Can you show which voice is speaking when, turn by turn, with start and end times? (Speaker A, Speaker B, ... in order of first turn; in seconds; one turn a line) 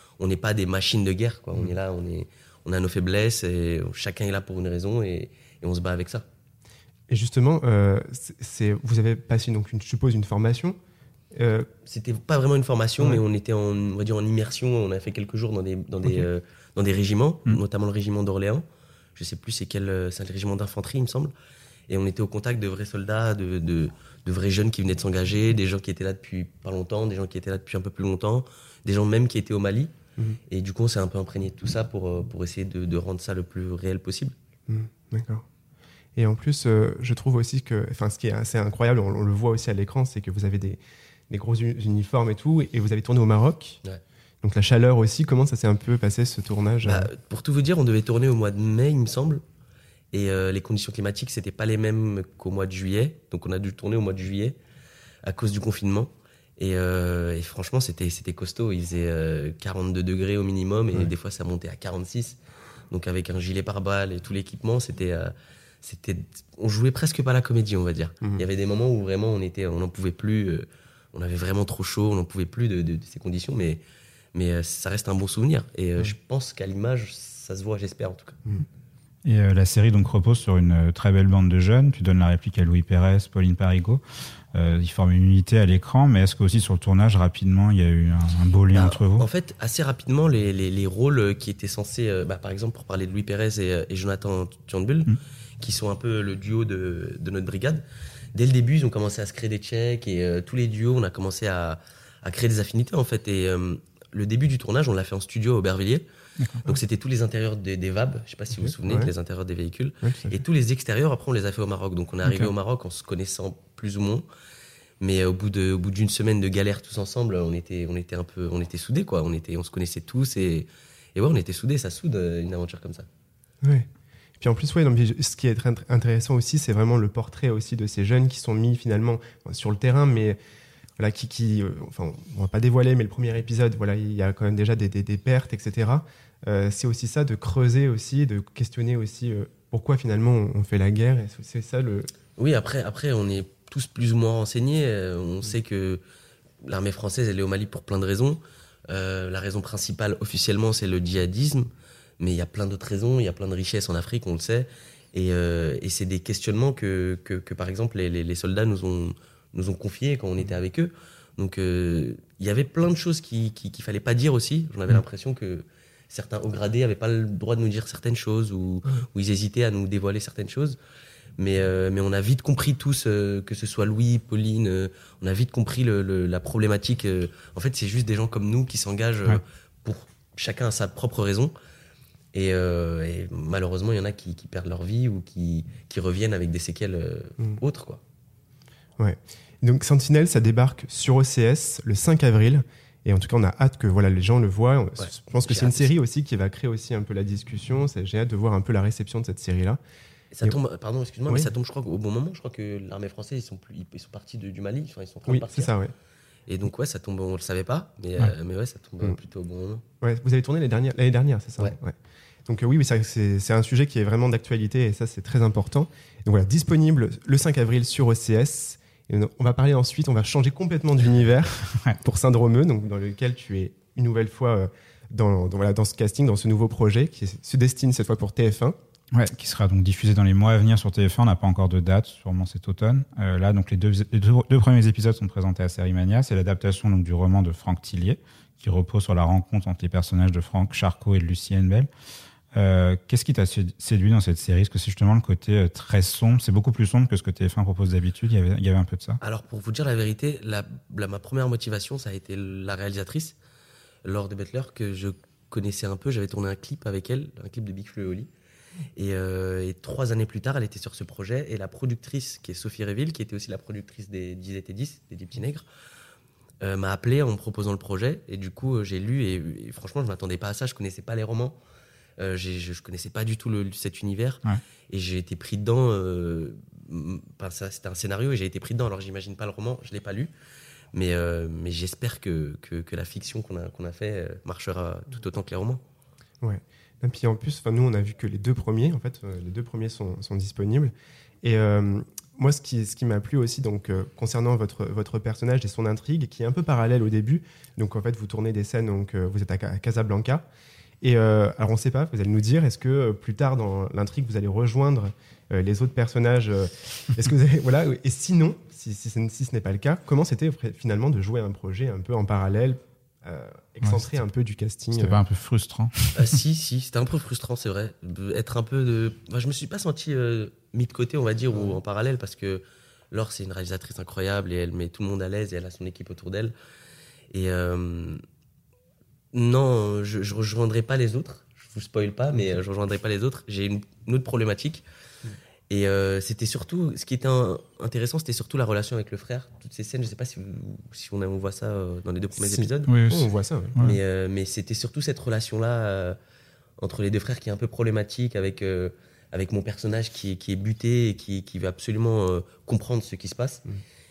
Speaker A: 0.2-6.2
Speaker B: 7.1-10.8
Speaker B: 11.3-11.7
Speaker A: 11.8-18.6
Speaker A: 19.2-21.3
Speaker A: 21.9-29.9
Speaker A: 30.5-34.3
Speaker B: 34.7-35.4
Speaker B: 36.2-40.8
Speaker B: 41.3-43.8
Speaker B: 44.4-47.1
Speaker A: 46.8-49.4
Speaker A: 50.1-54.6
Speaker A: 55.2-62.4
Speaker A: 62.9-73.8
Speaker A: 74.3-78.4
Speaker C: 79.2-84.0
Speaker C: 84.5-89.3
Speaker A: 88.7-97.8
Speaker A: 98.3-106.0
Speaker C: 106.4-106.7
Speaker A: 106.7-114.3
Speaker B: 108.6-109.1
Speaker B: 110.0-110.4
Speaker C: 112.2-112.5
Speaker A: 115.0-123.0
Speaker B: 124.4-130.4
Speaker B: 131.0-142.1
Speaker A: 142.4-146.0
Speaker A: 146.6-151.7
Speaker A: 152.2-170.8
Speaker A: 171.4-181.5
Speaker A: 182.3-188.0
Speaker B: 189.0-199.8
Speaker A: 195.0-195.9
Speaker A: 200.3-205.7
Speaker B: 205.3-205.9
Speaker A: 206.5-209.8
Speaker B: 210.0-211.9
Speaker B: 212.5-228.7
Speaker C: 229.1-241.9
Speaker C: 242.5-249.2
Speaker A: 249.2-253.3
Speaker A: 254.0-258.3
Speaker A: 259.0-265.6
Speaker A: 266.6-271.6
Speaker A: 272.2-280.3
Speaker A: 280.9-285.8
Speaker B: 286.4-300.4
Speaker B: 301.0-315.2
Speaker C: 313.8-314.1
Speaker C: 314.9-316.4
Speaker A: 316.1-326.5
Speaker B: 321.5-321.8
Speaker A: 327.3-328.2
Speaker A: 329.3-334.8
Speaker A: 335.7-342.9
Speaker B: 342.4-343.8
Speaker C: 342.9-344.0
Speaker A: 343.8-346.1
Speaker A: 346.8-353.6